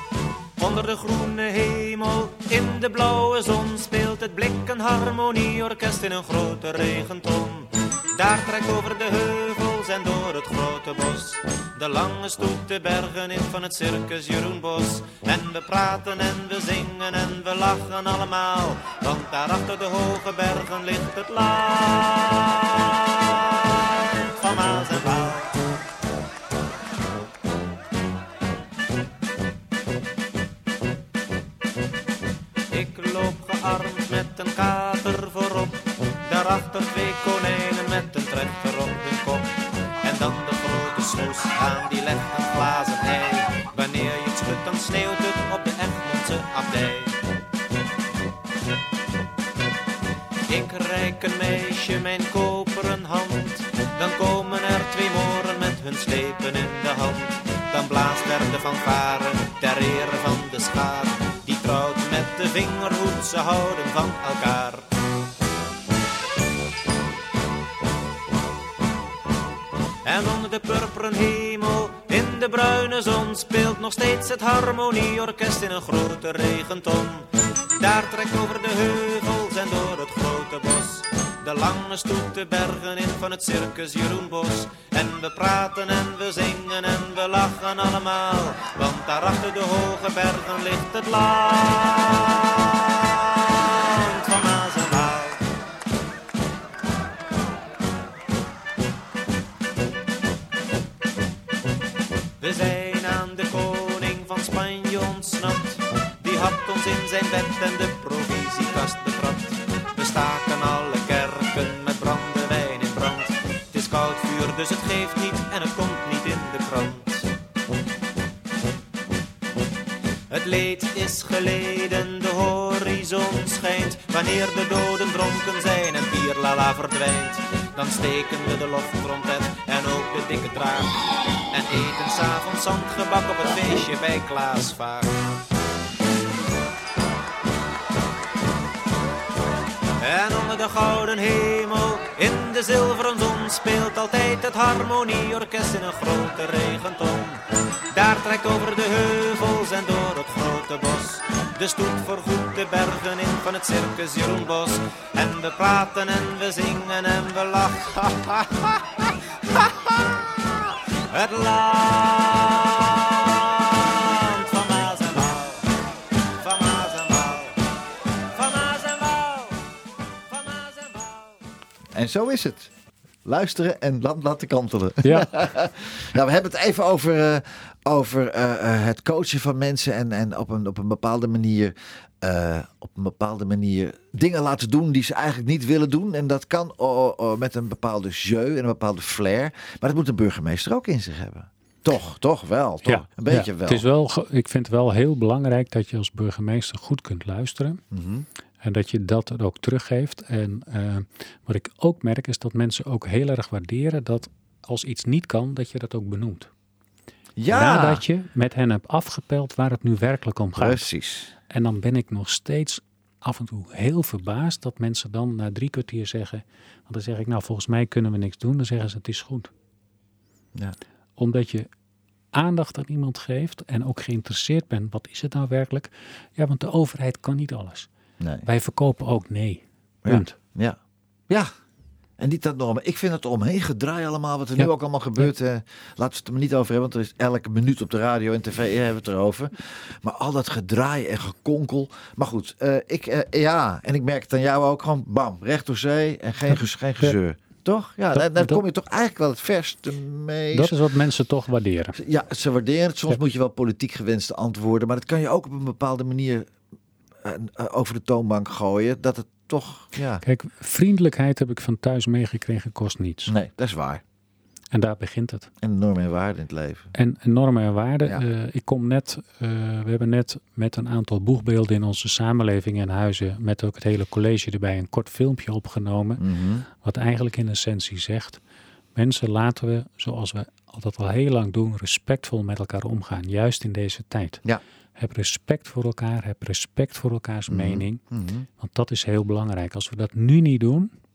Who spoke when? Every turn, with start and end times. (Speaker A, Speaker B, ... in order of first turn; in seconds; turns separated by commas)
Speaker A: 0.6-25.5, Speaker A: 32.7-39.5, Speaker A: 40.0-47.2, Speaker A: 50.5-64.9, Speaker A: 70.0-95.4, Speaker A: 102.4-117.3, Speaker A: 120.3-130.9, Speaker A: 131.5-135.1, Speaker A: 140.0-147.4, Speaker A: 147.9-158.9, Speaker A: 159.6-159.9, Speaker A: 161.1-165.7, Speaker A: 166.4-167.6, Speaker A: 168.3-169.6, Speaker A: 170.3-171.4, Speaker B: 171.9-172.7, Speaker B: 173.2-193.9, Speaker C: 175.0-175.3, Speaker C: 192.9-197.8, Speaker B: 197.9-198.3, Speaker C: 198.6-206.5, Speaker B: 207.4-208.0, Speaker C: 207.5-210.9, Speaker B: 210.6-211.3, Speaker C: 211.5-219.5, Speaker C: 221.2-221.7, Speaker C: 222.3-227.9, Speaker B: 228.2-228.5, Speaker C: 228.4-230.3, Speaker B: 230.1-230.8, Speaker B: 232.2-250.8, Speaker C: 234.6-235.3, Speaker C: 248.1-248.6, Speaker C: 250.5-252.0, Speaker B: 251.9-256.5, Speaker B: 257.2-260.2, Speaker C: 260.2-263.3, Speaker B: 263.3-264.0, Speaker C: 264.7-265.5, Speaker B: 265.6-266.9, Speaker C: 266.9-276.2, Speaker B: 276.2-276.7, Speaker C: 276.8-278.4, Speaker C: 278.9-284.4, Speaker C: 285.0-288.0, Speaker B: 287.5-288.5, Speaker C: 288.6-290.9